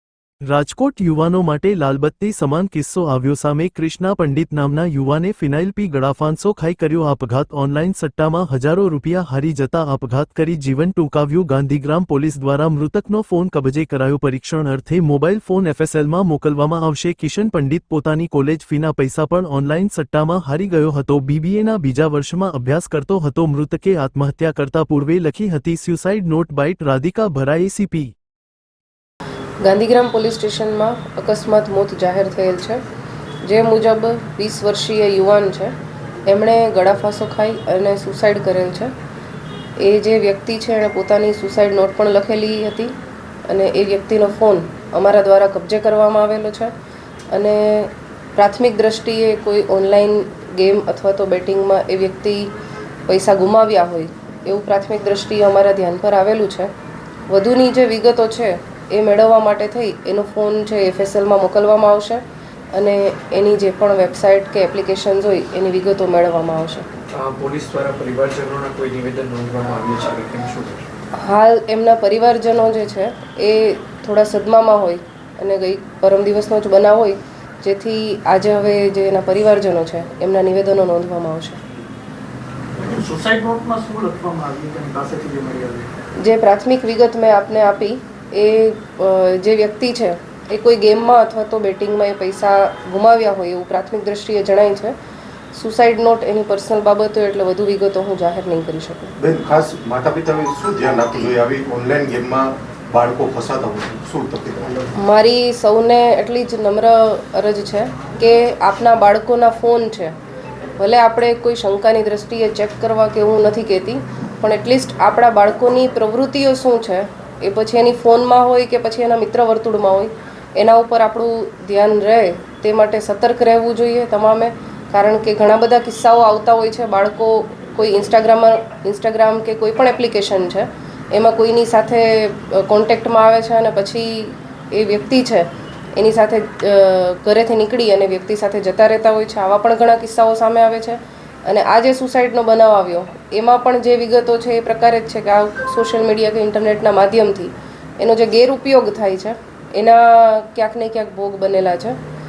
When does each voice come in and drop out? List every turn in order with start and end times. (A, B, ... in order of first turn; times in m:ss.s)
0:00.5-0:28.1 A
0:29.6-0:32.8 B
0:33.4-0:35.8 B
0:36.3-0:38.9 B
0:39.8-0:43.0 B
0:43.5-0:46.7 B
0:47.3-0:52.5 B
0:53.1-0:56.7 B
0:57.3-1:06.9 B
1:07.1-1:10.9 C
1:11.1-1:21.6 B
1:22.8-1:25.9 D
1:26.2-1:35.0 B
1:35.5-1:39.2 B
1:39.2-1:44.9 E
1:45.0-1:50.2 B
1:50.8-2:32.0 B